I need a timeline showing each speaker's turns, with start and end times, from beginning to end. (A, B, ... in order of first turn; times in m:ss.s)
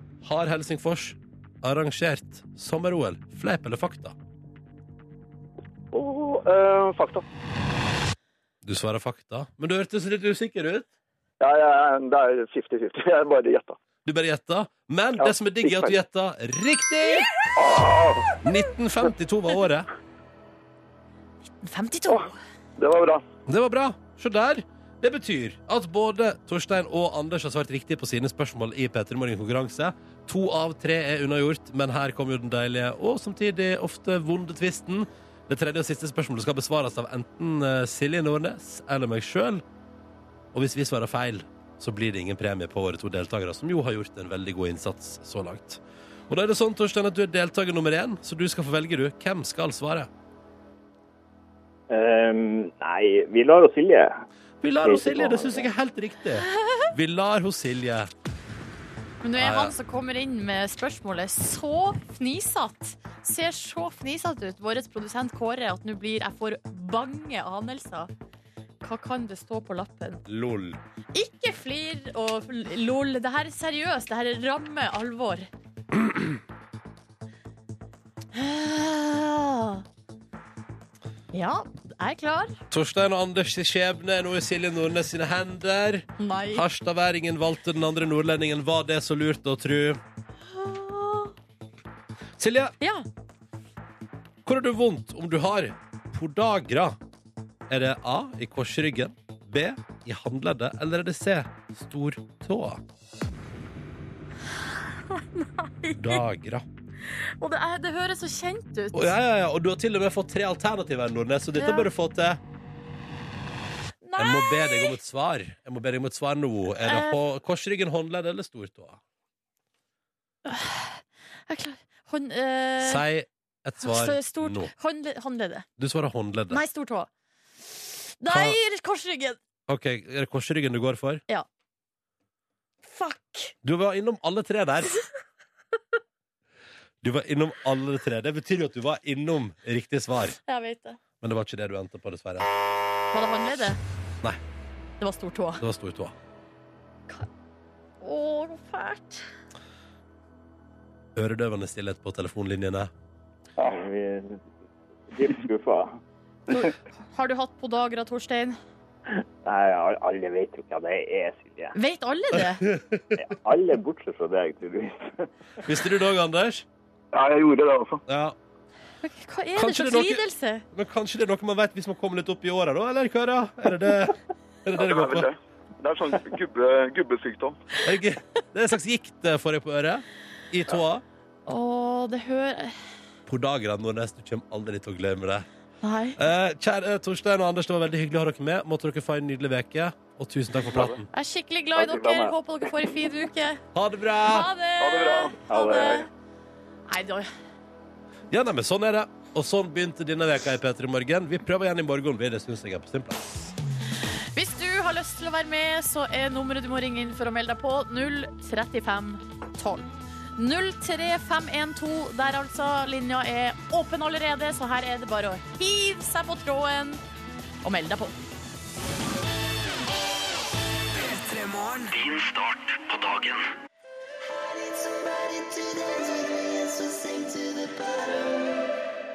0:00.2-0:04.2 A
0:05.9-0:07.2 B
0:08.6-0:10.9 A
0:11.4-0:13.8 B
0:14.0-0:17.3 A
0:15.2-0:15.9 B
0:17.6-0:18.3 B
0:18.4-0:19.9 A
0:21.6-0:22.4 C
0:22.1-0:23.2 B
0:23.5-0:39.6 A
0:40.5-0:50.1 A
0:51.9-0:54.2 D
0:54.6-0:58.1 A
0:54.8-0:55.7 D
0:59.2-1:08.1 C
0:59.4-0:59.8 A
1:08.8-1:10.2 C
1:10.3-1:10.8 A
1:11.1-1:15.5 C
1:16.0-1:16.3 A
1:18.3-1:19.8 C
1:21.3-1:22.6 C
1:22.7-1:30.0 A
1:26.2-1:26.6 C
1:30.5-1:31.3 C
1:32.4-1:32.7 A
1:32.8-1:33.1 C
1:34.4-1:37.0 A
1:37.7-1:42.8 A
1:44.8-1:46.2 C
1:46.0-1:46.7 A
1:47.0-1:49.1 C
1:48.9-1:52.4 A
1:51.6-1:51.9 C
1:54.0-1:55.0 C
1:54.2-1:59.0 A
1:56.8-1:57.2 C
2:00.4-2:03.0 C
2:02.8-2:04.7 A
2:03.8-2:05.7 C
2:05.8-2:06.6 A
2:06.5-2:07.1 C
2:08.2-2:09.4 C
2:08.3-2:08.6 A
2:09.7-2:11.2 A
2:12.9-2:13.5 C
2:13.6-2:15.0 A
2:17.0-2:20.4 A
2:20.5-2:21.0 C
2:21.2-2:22.5 A
2:23.1-2:23.8 C
2:25.0-2:25.6 C
2:25.6-2:26.2 A
2:28.0-2:29.3 C
2:31.2-2:32.9 A
2:33.6-2:34.4 D
2:35.1-2:36.0 D
2:36.5-2:38.6 C
2:39.4-2:41.8 D
2:41.7-2:42.6 C
2:42.6-2:43.2 A
2:43.2-2:45.3 D
2:45.6-2:46.7 A
2:47.1-2:48.0 B
2:48.1-2:48.4 A
2:49.0-2:50.6 C
2:49.6-2:55.3 A
2:54.8-2:57.6 B
2:57.8-3:01.0 A
3:01.5-3:02.8 C
3:03.3-3:05.5 A
3:05.8-3:06.2 C
3:06.2-3:11.1 A
3:11.1-3:13.6 C
3:11.8-3:12.4 D
3:13.8-3:14.5 A
3:14.2-3:16.1 C
3:14.8-3:16.0 B
3:15.5-3:16.0 D
3:16.9-3:17.3 C
3:18.3-3:23.4 A
3:24.3-3:37.0 C
3:37.6-3:38.2 C
3:41.0-3:43.4 E
3:44.3-3:48.6 E